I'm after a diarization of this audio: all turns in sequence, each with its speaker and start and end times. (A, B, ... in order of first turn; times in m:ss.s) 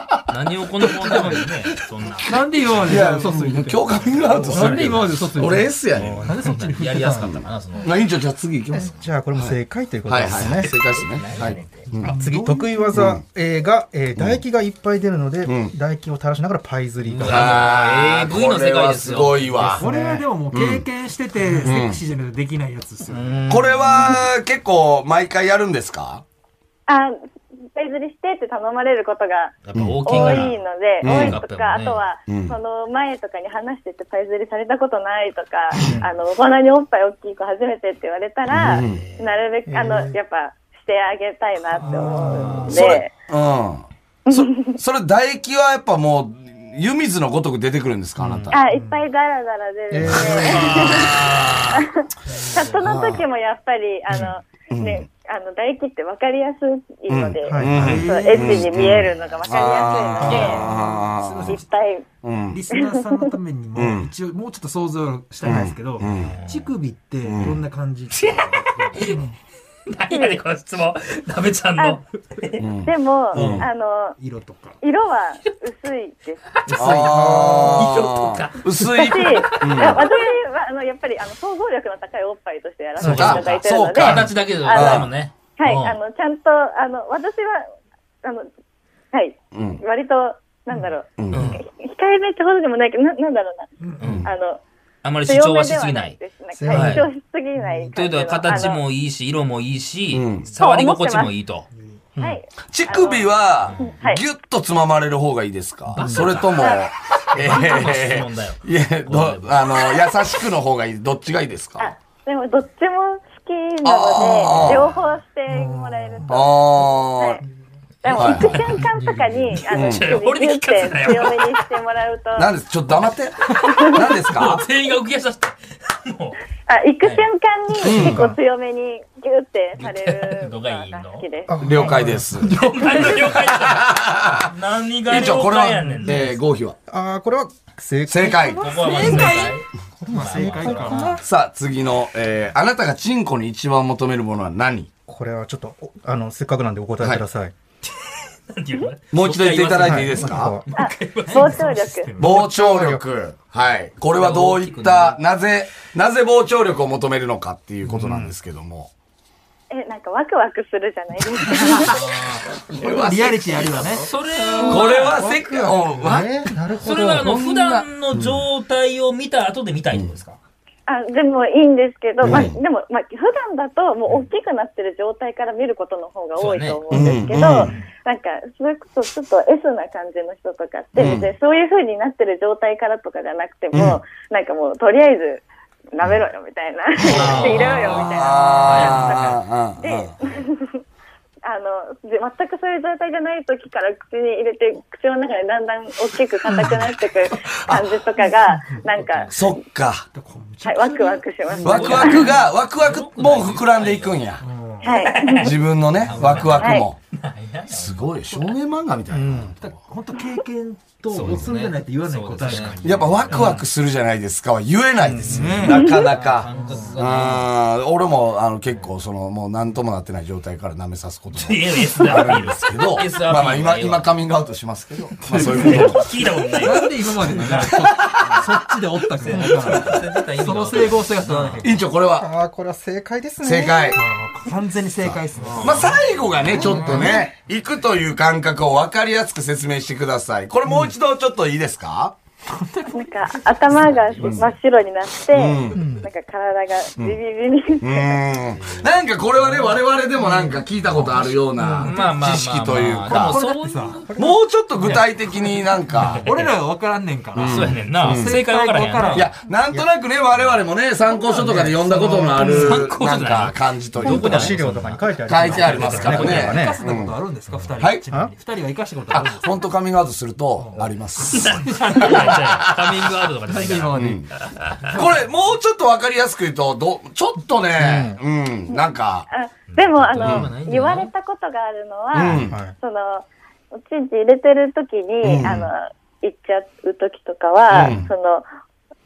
0:00.3-0:03.1 A
0:01.0-0:01.5 B
0:02.2-0:07.4 B
0:02.8-0:06.4 C
0:04.4-0:05.4 A
0:06.0-0:08.0 A
0:07.3-0:12.2 C
0:08.7-0:10.7 D
0:10.4-0:11.9 A
0:11.9-0:12.9 B
0:12.0-0:17.6 D
0:12.9-0:13.2 C
0:15.4-0:15.7 C
0:17.2-0:19.8 A
0:17.2-0:19.9 C
0:19.6-0:20.3 D
0:19.7-0:23.5 B
0:20.5-0:20.9 C
0:21.6-0:22.0 C
0:23.1-0:24.2 D
0:23.5-0:26.2 C
0:26.9-0:27.2 E
0:27.7-0:43.1 E
0:29.6-0:32.0 A
0:29.8-0:30.5 C
0:31.0-0:31.4 C
0:32.3-0:32.6 C
0:38.5-0:39.1 C
0:38.8-0:39.3 A
0:39.7-0:40.2 D
0:41.8-0:42.9 D
0:41.9-0:42.6 B
0:42.4-0:42.8 A
0:42.7-0:48.6 C
0:44.3-0:44.8 E
0:48.2-0:48.6 D
0:48.5-1:00.7 E
0:49.9-0:51.0 D
0:50.1-0:51.5 C
0:50.4-0:51.9 A
0:52.3-0:52.6 B
0:52.8-0:53.2 C
0:54.1-0:55.0 C
0:57.1-1:01.6 C
0:57.5-0:58.0 D
0:57.7-0:58.8 B
0:59.1-0:59.8 A
1:00.2-1:01.6 B
1:00.2-1:00.6 D
1:01.5-1:02.1 E
1:02.2-1:02.6 C
1:02.5-1:09.3 B
1:02.7-1:03.3 E
1:03.8-1:04.1 C
1:05.4-1:06.4 C
1:06.1-1:06.7 A
1:07.2-1:07.6 C
1:08.1-1:09.3 A
1:09.9-1:12.7 A
1:10.1-1:10.4 E
1:12.6-1:13.7 C
1:12.8-1:14.2 E
1:13.4-1:13.7 B
1:14.2-1:14.8 B
1:14.8-1:16.4 E
1:16.6-1:20.3 A
1:16.7-1:17.9 D
1:16.7-1:17.5 B
1:16.7-1:20.0 C
1:19.0-1:27.7 E
1:23.0-1:23.4 D
1:23.0-1:25.1 C
1:23.0-1:26.0 A
1:28.2-1:28.5 E
1:29.1-1:33.7 E
1:29.5-1:29.8 C
1:31.2-1:31.6 C
1:33.8-1:34.2 B
1:34.0-1:34.3 A
1:34.0-1:34.3 C
1:34.2-1:34.6 E
1:35.0-1:36.2 A
1:35.3-1:38.8 E
1:36.5-1:37.1 D
1:36.7-1:37.0 A
1:37.6-1:37.9 B
1:37.9-1:41.7 A
1:40.1-1:40.5 C
1:40.6-1:41.3 E
1:41.8-1:42.0 B
1:42.2-1:44.2 E
1:42.7-1:51.9 C
1:43.6-1:44.0 A
1:46.0-1:46.8 A
1:46.0-1:46.3 D
1:46.6-1:46.9 E
1:47.3-1:50.0 A
1:51.8-1:57.4 E
1:53.8-1:54.9 C
1:55.5-1:56.3 B
1:56.3-1:57.4 C
1:58.0-2:02.5 E
1:58.1-1:58.8 A
1:58.1-1:58.8 C
1:58.8-1:59.6 B
1:59.5-2:01.6 A
1:59.7-2:00.2 C
2:02.4-2:04.6 C
2:03.6-2:04.0 E
2:03.8-2:06.4 A
2:06.7-2:11.6 E
2:07.8-2:08.2 C
2:07.9-2:08.4 D
2:09.8-2:11.2 A
2:11.5-2:13.1 D
2:11.6-2:14.5 C
2:12.5-2:16.3 A
2:15.1-2:16.8 C
2:15.9-2:16.3 D
2:16.9-2:19.5 D
2:18.1-2:19.1 C
2:18.5-2:21.2 A
2:18.8-2:21.2 B
2:20.1-2:21.2 D
2:21.2-2:24.9 C
2:25.1-2:27.6 D
2:27.9-2:31.7 A
2:29.1-2:30.6 C
2:29.8-2:30.6 D
2:30.8-2:32.1 E
2:31.2-2:32.4 B
2:32.2-2:33.1 D
2:32.2-2:38.9 C
2:34.1-2:35.2 A
2:37.8-2:38.3 D
2:39.7-2:42.0 E
2:41.8-2:42.4 A
2:41.8-2:44.1 C
2:42.8-2:45.8 B
2:44.0-2:45.4 A
2:44.6-2:46.5 C
2:46.0-2:47.4 D
2:46.8-2:50.4 A
2:47.1-2:48.4 C
2:50.9-3:10.8 E
2:52.2-2:52.6 C
2:56.4-2:56.8 A
2:56.9-2:57.8 C
3:01.0-3:01.3 C
3:03.7-3:04.0 C
3:07.0-3:10.1 C
3:07.1-3:08.1 A
3:08.6-3:09.4 A
3:11.4-3:19.5 E
3:17.4-3:17.9 C
3:19.3-3:20.1 C
3:20.1-3:22.2 B
3:20.6-3:22.3 E
3:21.6-3:24.2 A
3:21.6-3:24.4 C
3:24.4-3:25.0 B
3:24.8-3:25.5 E
3:24.9-3:28.5 A
3:25.4-3:27.0 C
3:26.1-3:26.6 B
3:26.6-3:26.9 E
3:27.7-3:29.6 C
3:29.1-3:29.6 D
3:29.6-3:33.6 B
3:31.1-3:33.6 A
3:32.8-3:46.1 C
3:35.0-3:35.8 D
3:35.2-3:36.0 B
3:35.7-3:37.5 A
3:36.5-3:37.0 B
3:41.4-3:44.2 A
3:45.2-3:51.8 B
3:45.4-3:47.9 A
3:47.5-3:48.5 C
3:49.2-3:51.8 A
3:51.6-3:52.3 C
3:52.1-3:54.0 D
3:53.4-3:54.0 C
3:54.0-3:57.2 B
3:55.0-4:02.2 C
3:55.5-3:56.0 A
3:56.6-3:57.2 D
4:02.5-4:03.9 B
4:02.9-4:08.2 E
4:03.7-4:04.6 A
4:04.2-4:04.5 C
4:05.3-4:05.9 C
4:05.7-4:06.1 D
4:07.8-4:13.4 C
4:09.5-4:12.1 B
4:11.6-4:12.0 D
4:11.8-4:14.1 A
4:13.0-4:14.1 B
4:14.1-4:14.4 D
4:14.2-4:16.3 C
4:16.0-4:16.5 A
4:16.1-4:19.3 B
4:17.4-4:18.4 C
4:17.4-4:19.3 A
4:19.1-4:24.6 C
4:21.2-4:22.8 B
4:22.4-4:22.8 D
4:22.4-4:26.6 A
4:24.0-4:26.8 D
4:25.3-4:27.2 C
4:25.8-4:29.7 B
4:27.8-4:28.0 C
4:28.1-4:28.3 D
4:29.1-4:33.1 C
4:30.6-4:32.4 B
4:31.3-4:34.9 A
4:33.5-4:34.2 B
4:34.0-4:34.3 C
4:34.8-4:35.3 B
4:34.9-4:39.3 C
4:37.8-4:38.2 D
4:38.7-4:48.5 E
4:39.7-4:41.1 A
4:40.2-4:40.5 C
4:42.1-4:42.6 C
4:42.5-4:42.8 D
4:45.2-4:45.7 C
4:47.7-4:48.1 C